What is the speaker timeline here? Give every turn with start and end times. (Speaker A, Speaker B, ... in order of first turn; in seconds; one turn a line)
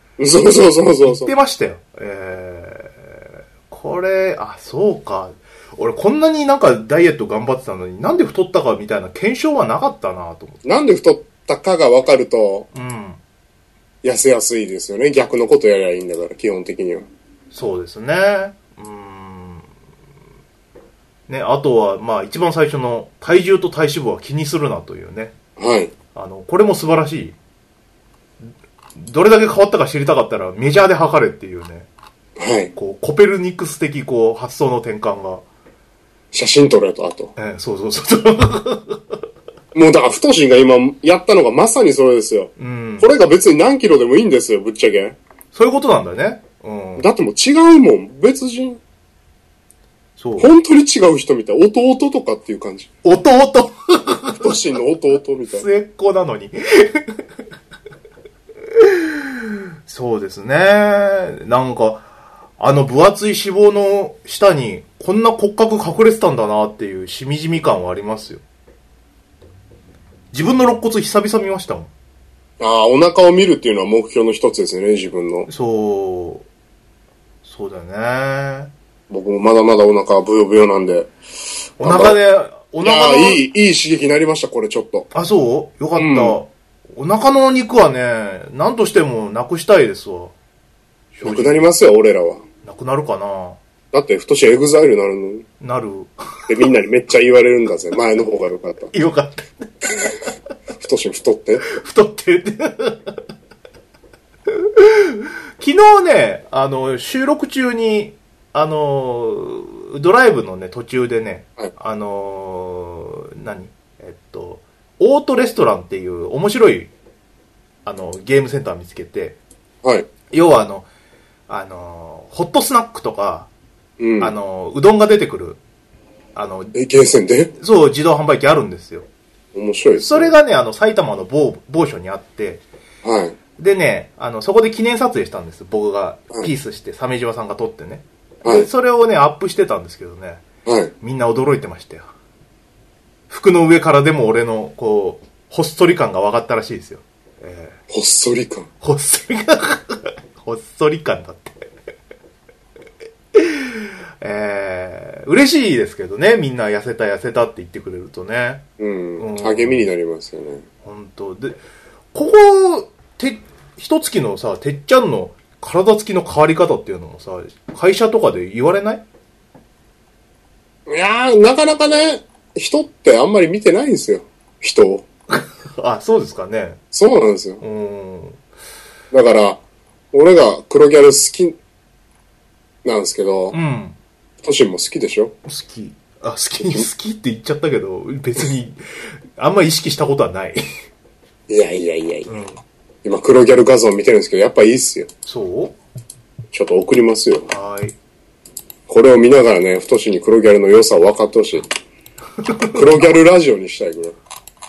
Speaker A: 0.2-1.3
Speaker B: 1.0-10.6
Speaker A: 10.6-12.7
Speaker B: 12.7-13.2
Speaker A: 14.0-17.1
Speaker B: 17.5-19.7
Speaker B: 21.3-25.3
Speaker A: 25.6-25.9
Speaker B: 26.1-27.4
Speaker B: 28.9-31.9
Speaker A: 32.4-32.7
Speaker B: 32.8-35.4
Speaker A: 36.3-37.3
Speaker B: 37.4-39.1
Speaker A: 39.7-45.2
Speaker B: 42.6-43.1
Speaker B: 45.5-47.1
Speaker A: 47.0-48.8
Speaker B: 50.2-50.5
Speaker A: 50.4-52.9
Speaker B: 53.0-54.5
Speaker A: 54.3-55.6
Speaker B: 55.5-57.1
Speaker B: 58.7-62.1
Speaker B: 62.6-68.4
Speaker B: 70.3-71.9
Speaker A: 72.6-75.5
Speaker B: 75.5-76.5
Speaker B: 77.4-78.7
Speaker A: 79.1-81.1
Speaker A: 81.8-82.2
Speaker B: 81.8-83.4
Speaker A: 82.8-85.1
Speaker B: 85.1-90.3
Speaker A: 86.0-86.4
Speaker B: 91.1-91.7
Speaker A: 91.2-92.4
Speaker B: 92.6-93.6
Speaker A: 93.9-95.5
Speaker B: 95.6-96.5
Speaker A: 96.5-98.9
Speaker B: 98.9-100.2
Speaker A: 100.8-101.6
Speaker B: 101.6-103.2
Speaker B: 104.5-116.9
Speaker B: 117.8-119.4
Speaker A: 119.8-120.1
Speaker B: 120.3-120.9
Speaker B: 121.5-123.5
Speaker A: 124.0-124.3
Speaker B: 124.2-125.6
Speaker B: 126.3-126.8
Speaker A: 126.7-127.5
Speaker B: 127.6-129.1
Speaker A: 129.5-130.3
Speaker B: 130.0-132.6
Speaker A: 133.0-133.3
Speaker B: 133.6-140.4
Speaker A: 140.6-140.9
Speaker B: 141.0-142.1
Speaker B: 143.3-147.8
Speaker A: 147.9-148.7
Speaker B: 148.8-151.7
Speaker B: 153.3-158.6
Speaker A: 158.8-160.6
Speaker B: 159.2-159.9
Speaker B: 160.8-161.6
Speaker B: 162.1-169.0
Speaker A: 170.9-175.0
Speaker B: 175.3-176.8
Speaker A: 176.9-177.6
Speaker B: 177.6-178.4
Speaker A: 179.1-181.6
Speaker A: 182.8-183.6
Speaker B: 183.5-183.9
Speaker A: 184.4-185.3
Speaker B: 185.4-190.6
Speaker A: 191.5-192.3
Speaker B: 192.3-192.6
Speaker A: 193.0-195.1
Speaker B: 195.2-195.8
Speaker A: 196.5-197.5
Speaker B: 197.5-197.9
Speaker A: 198.9-201.7
Speaker B: 202.4-203.0
Speaker A: 202.7-204.2